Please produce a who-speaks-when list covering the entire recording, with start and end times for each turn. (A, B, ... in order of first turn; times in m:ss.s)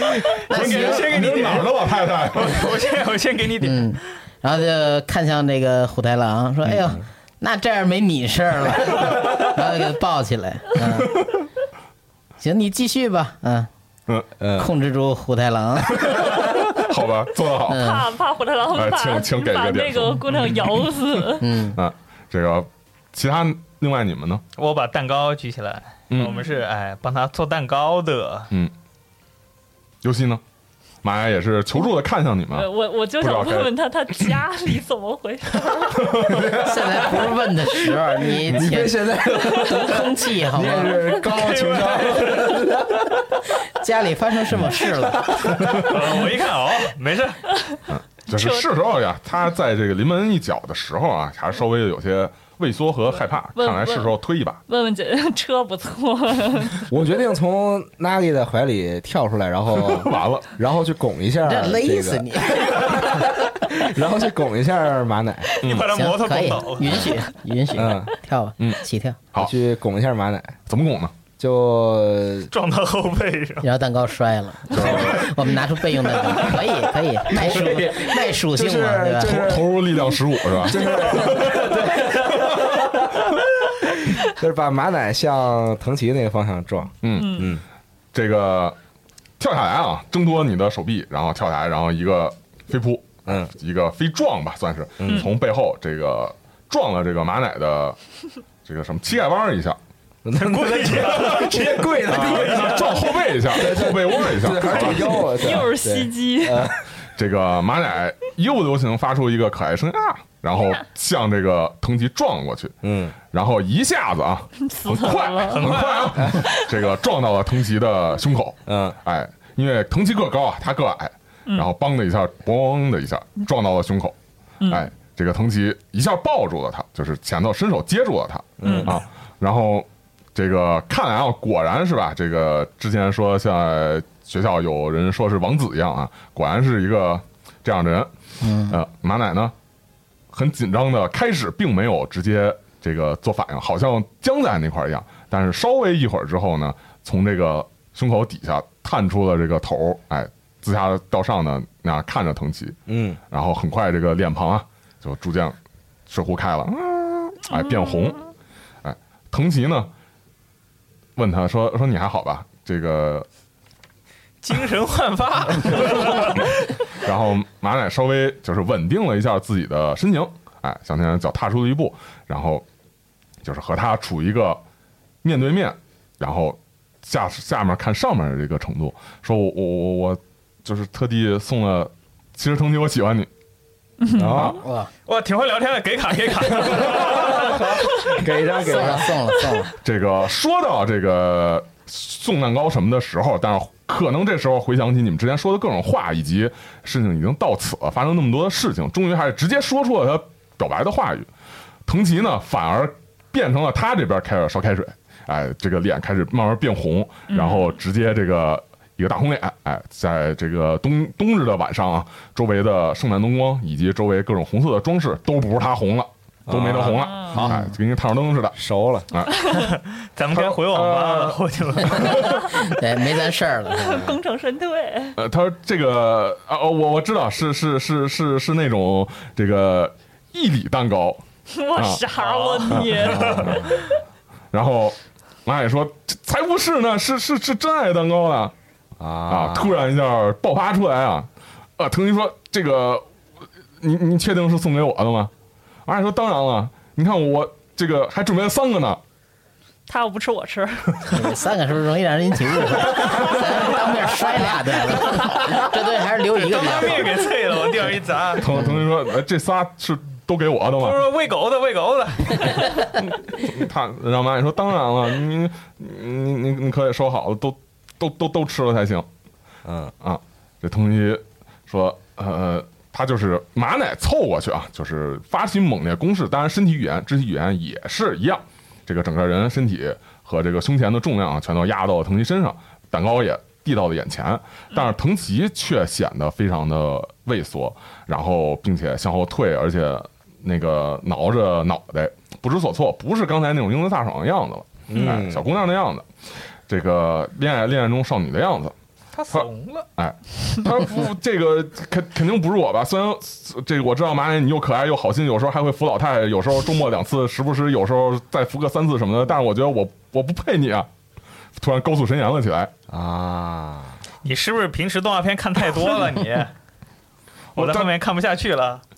0:00.5-0:01.1 A
0:00.5-0:02.7 B
0:00.5-0:04.0 C
0:03.6-0:11.2 A
0:06.7-0:07.0 D
0:12.4-0:13.7 A
0:14.4-0:14.7 D
0:14.6-0:16.2 A
0:16.0-0:17.9 B
0:17.7-0:18.0 A
0:17.7-0:21.5 E
0:18.7-0:21.2 B
0:21.4-0:21.8 A
0:21.8-0:24.4 B
0:24.6-0:28.5 C
0:26.1-0:26.4 B
0:30.0-0:30.4 B
0:31.0-0:33.7 B
0:32.5-0:36.3 E
0:36.0-0:36.4 B
0:36.3-0:37.3 D
0:36.6-0:39.0 A
0:37.9-0:43.2 D
0:39.6-0:41.1 A
0:41.3-0:42.6 C
0:43.8-0:45.3 A
0:45.0-0:45.9 D
0:45.6-0:45.9 B
0:45.8-0:47.4 C
0:47.9-0:54.6 B
0:48.3-0:48.6 E
0:53.6-0:54.1 E
0:54.7-0:56.9 E
0:56.9-1:05.6 D
0:59.7-1:00.5 B
1:01.4-1:03.0 A
1:05.6-1:07.1 C
1:05.6-1:05.9 B
1:05.7-1:09.2 A
1:07.8-1:08.1 D
1:09.4-1:10.6 D
1:10.7-1:11.2 B
1:11.4-1:12.5 D
1:12.5-1:13.7 C
1:13.6-1:19.6 A
1:14.7-1:15.3 B
1:14.8-1:15.3 D
1:16.1-1:16.6 D
1:17.3-1:20.0 D
1:19.2-1:21.7 B
1:20.6-1:27.6 D
1:27.0-1:27.6 B
1:27.2-1:27.5 E
1:28.1-1:28.8 B
1:29.4-1:38.0 B
1:33.3-1:33.5 D
1:35.0-1:35.3 D
1:38.6-1:39.8 B
1:40.2-1:46.8 D
1:40.4-1:43.1 C
1:42.1-1:45.2 B
1:44.7-1:46.7 E
1:47.2-2:04.2 B
1:52.8-1:53.2 D
1:54.6-1:55.9 E
1:55.5-1:56.3 C
1:56.2-1:56.4 D
1:56.4-1:56.7 E
1:58.7-1:59.0 D
2:04.6-2:04.9 E
2:04.7-2:18.1 B
2:08.6-2:09.0 D
2:08.6-2:08.9 E
2:18.4-2:18.8 A
2:18.7-2:19.5 B
2:20.3-2:32.8 B
2:32.9-2:33.2 D
2:33.3-2:35.6 B
2:36.1-2:38.2 B
2:37.5-2:38.2 E
2:38.8-2:39.9 B
2:41.2-2:43.3 B
2:44.4-2:46.6 C
2:47.0-2:52.6 B
2:53.4-2:54.6 B
2:55.2-3:03.3 B
3:04.0-3:04.4 E
3:04.2-3:04.6 D
3:04.3-3:04.6 B
3:04.5-3:04.9 A
3:05.1-3:07.9 C
3:06.8-3:09.2 D
3:08.6-3:09.7 A
3:09.8-3:21.3 B
3:21.9-3:38.6 B
3:27.3-3:27.7 E
3:36.5-3:37.7 D
3:37.0-3:37.5 E
3:38.6-3:39.1 D
3:39.5-3:42.3 C
3:40.4-3:42.4 B
3:42.6-3:44.2 A
3:43.7-3:45.2 E
3:45.2-3:51.2 B
3:51.5-3:53.7 E
3:51.8-3:52.1 B
3:52.2-3:53.6 C
3:52.7-3:53.7 B
3:53.2-3:53.8 D
3:54.5-3:58.5 B
3:59.0-3:59.8 D
3:59.3-4:03.1 B
4:03.8-4:05.3 B
4:05.9-4:09.0 B
4:09.9-4:11.2 E
4:11.1-4:17.1 A
4:12.8-4:13.4 E
4:16.3-4:18.6 C
4:18.4-4:21.1 B
4:20.8-4:22.8 C
4:23.0-4:29.1 B
4:29.6-4:29.9 D
4:30.0-4:56.1 B
4:54.9-4:55.4 D
4:56.7-4:58.8 B
4:59.1-4:59.9 C
4:59.3-5:10.9 B
5:11.6-5:12.7 B
5:12.9-5:14.0 D
5:14.2-5:16.5 C
5:17.6-5:17.9 B
5:17.6-5:18.8 C